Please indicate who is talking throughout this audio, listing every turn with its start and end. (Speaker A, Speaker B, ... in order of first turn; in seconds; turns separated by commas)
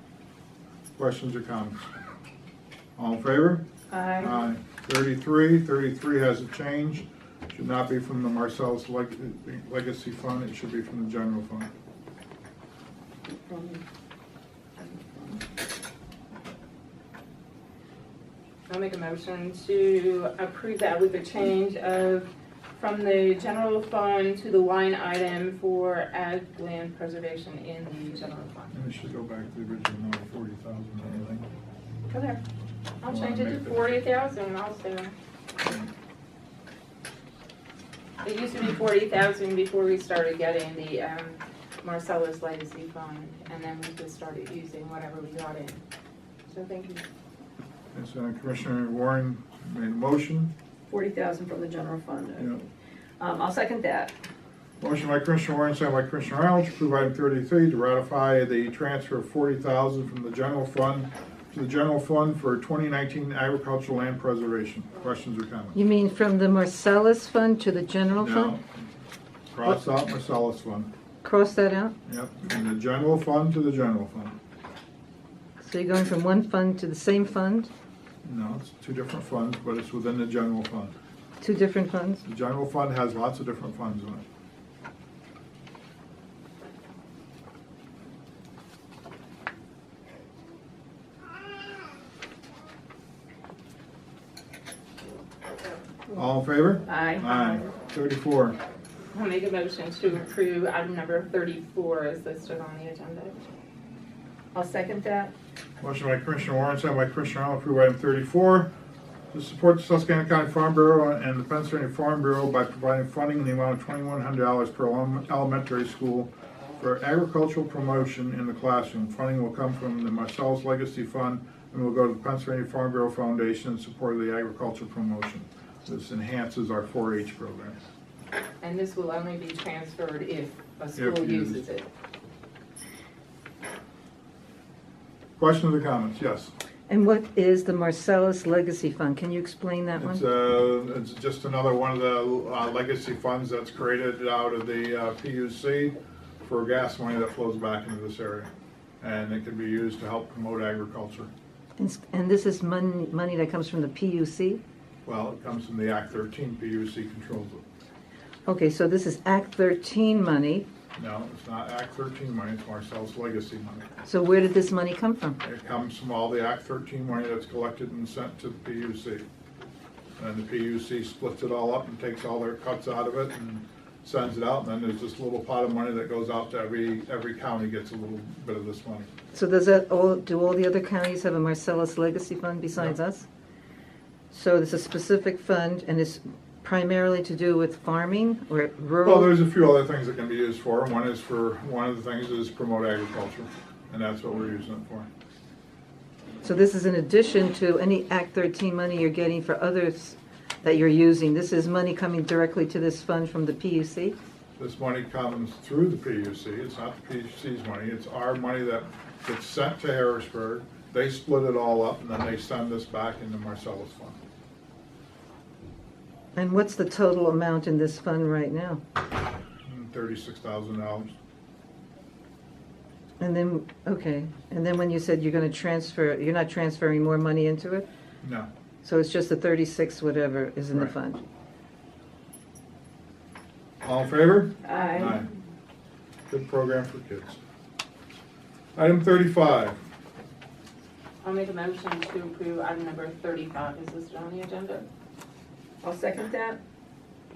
Speaker A: 0.9-1.8, Speaker A: 3.0-3.6, Speaker B: 3.9-4.3, Speaker A: 4.2-11.7, Speaker B: 13.5-13.8, Speaker B: 14.8-15.4, Speaker C: 18.7-28.7, Speaker A: 28.7-31.5, Speaker B: 32.1-32.4, Speaker C: 33.0-35.1, Speaker A: 33.0-34.0, Speaker C: 38.2-45.8, Speaker C: 46.5-47.0, Speaker A: 47.9-50.5, Speaker B: 50.9-52.5, Speaker B: 53.2-54.1, Speaker A: 54.8-65.8, Speaker D: 65.7-68.6, Speaker A: 68.2-68.6, Speaker A: 69.5-70.9, Speaker D: 71.2-71.9, Speaker A: 72.0-74.3, Speaker D: 75.6-77.7, Speaker A: 78.2-80.9, Speaker D: 81.4-82.2, Speaker A: 82.2-84.2, Speaker A: 96.1-98.6, Speaker B: 96.8-97.6, Speaker C: 99.1-103.4, Speaker B: 104.5-105.3, Speaker A: 105.8-108.7, Speaker A: 109.3-127.8, Speaker C: 128.6-131.8, Speaker A: 130.9-131.6, Speaker A: 135.4-136.5, Speaker D: 136.9-140.2, Speaker A: 140.0-148.5, Speaker A: 149.0-151.3, Speaker D: 151.8-154.6, Speaker A: 155.0-157.6, Speaker D: 158.5-160.7, Speaker A: 160.9-163.9, Speaker D: 164.0-165.4, Speaker A: 165.4-169.2, Speaker A: 170.2-179.1, Speaker D: 179.3-183.2, Speaker D: 184.3-189.3, Speaker A: 189.0-195.1, Speaker D: 196.4-204.2, Speaker A: 204.6-214.2, Speaker D: 216.3-218.8, Speaker A: 219.7-221.1, Speaker D: 223.2-227.8, Speaker A: 228.2-228.5, Speaker D: 228.8-231.2, Speaker A: 233.8-235.3, Speaker B: 234.6-235.2, Speaker A: 236.3-237.4, Speaker A: 238.8-239.8, Speaker C: 241.2-244.8, Speaker B: 245.8-246.6